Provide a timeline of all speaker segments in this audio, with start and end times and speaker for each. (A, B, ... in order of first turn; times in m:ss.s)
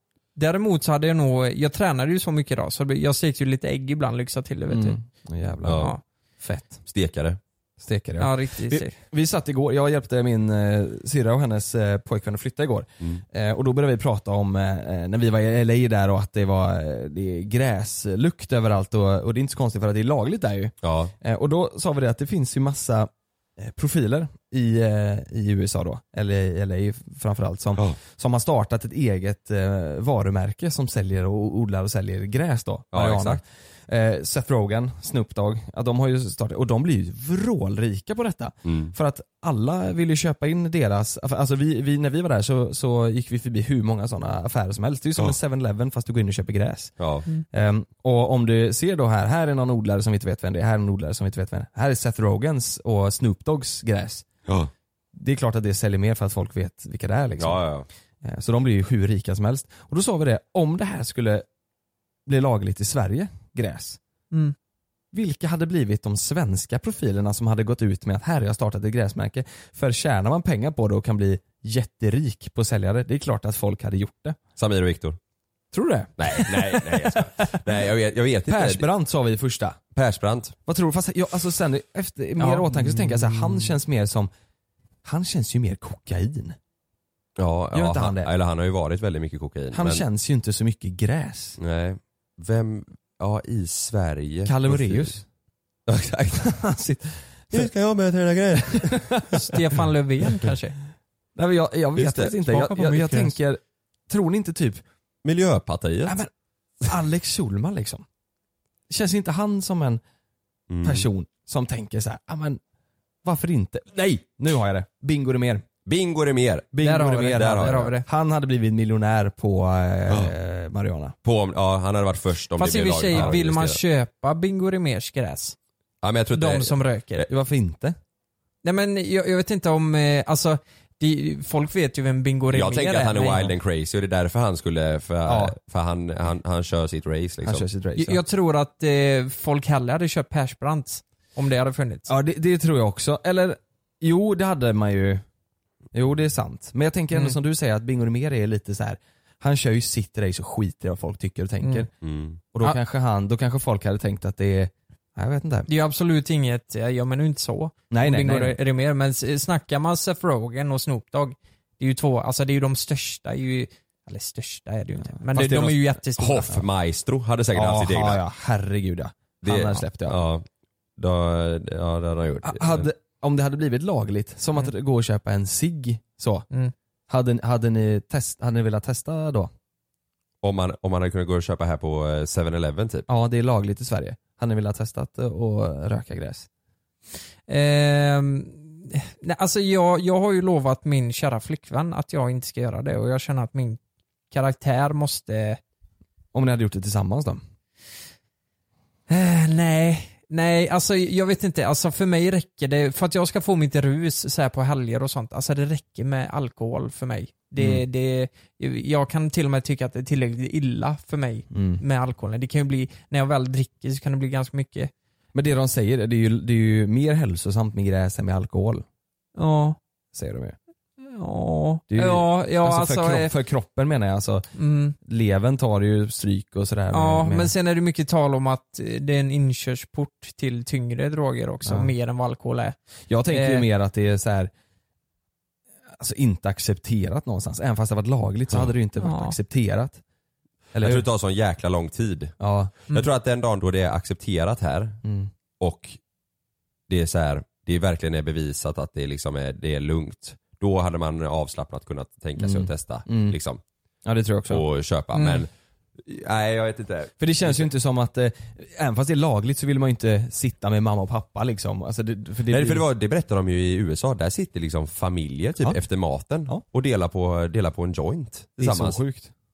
0:00.3-0:05.0 A
0:04.7-0:06.8 B
0:05.6-0:05.9 C
0:06.8-0:07.4 C
0:07.8-0:47.0 B
0:08.2-0:09.0 A
0:20.8-0:21.1 C
0:32.9-0:33.4 C
0:38.6-0:38.9 C
0:47.0-0:47.2 C
0:47.5-0:54.2 B
0:55.1-1:01.4 B
0:57.4-0:57.9 C
1:02.2-1:04.0 B
1:05.1-1:14.4 B
1:14.6-1:15.2 C
1:15.7-1:17.5 B
1:16.2-1:18.8 C
1:18.4-1:19.8 B
1:19.9-1:20.5 C
1:20.6-1:24.3 B
1:22.4-1:23.4 A
1:25.0-1:26.6 B
1:27.4-1:30.0 C
1:27.7-1:28.3 B
1:29.7-1:31.6 B
1:31.6-1:35.1 C
1:34.4-1:35.2 B
1:35.9-1:36.5 C
1:36.4-1:37.7 B
1:37.5-1:39.2 C
1:38.7-1:39.4 B
1:39.3-1:40.8 A
1:41.4-1:44.8 B
1:42.0-1:42.3 C
1:42.4-1:43.4 A
1:45.2-1:46.2 C
1:46.0-1:46.3 B
1:46.8-1:48.0 B
1:48.9-1:50.0 B
1:50.7-1:51.0 C
1:50.8-1:52.6 B
1:53.2-1:55.6 B
1:55.8-1:56.7 C
1:56.7-2:01.2 B
1:56.8-1:58.0 A
1:57.3-1:57.9 C
2:01.2-2:03.8 C
2:02.6-2:05.6 A
2:03.1-2:03.4 B
2:06.0-2:06.8 C
2:06.3-2:07.2 A
2:07.2-2:08.0 B
2:08.6-2:13.5 A
2:12.5-2:17.6 C
2:15.2-2:15.6 B
2:17.4-2:18.2 B
2:18.0-2:22.1 A
2:22.1-2:25.2 B
2:25.9-2:31.9 B
2:32.0-2:32.4 C
2:32.5-2:35.7 B
2:35.7-2:46.5 A
2:37.9-2:38.6 B
2:45.3-2:45.9 B
2:45.4-2:48.2 C
2:47.5-2:50.2 B
2:49.4-2:50.4 C
2:51.0-2:52.9 C
2:52.4-2:56.5 B
2:57.1-2:59.5 B
3:00.4-3:03.0 C
3:03.1-3:06.5 B
3:07.5-3:13.8 A
3:14.3-3:15.6 A
3:16.3-3:17.4 B
3:19.1-3:34.9 A
3:27.6-3:27.8 B
3:31.5-3:31.8 B
3:35.3-3:38.8 B
3:39.4-3:39.8 A
3:40.1-3:40.6 B
3:41.0-3:43.3 A
3:41.9-3:44.5 B
3:44.6-3:45.0 A
3:45.0-3:47.5 B
3:46.9-3:52.8 A
3:51.6-3:51.9 B
3:53.1-3:54.5 B
3:53.3-3:53.6 A
3:56.0-4:00.0 B
3:59.0-3:59.4 A
4:00.7-4:01.0 B
4:00.8-4:02.3 C
4:02.4-4:02.7 B
4:02.9-4:05.0 C
4:05.0-4:05.3 B
4:05.6-4:06.0 C
4:06.9-4:13.6 C
4:12.4-4:13.4 B
4:14.0-4:14.6 B
4:14.5-4:17.7 C
4:15.1-4:15.4 A
4:17.2-4:22.8 B
4:22.5-4:29.0 C
4:28.6-4:29.3 B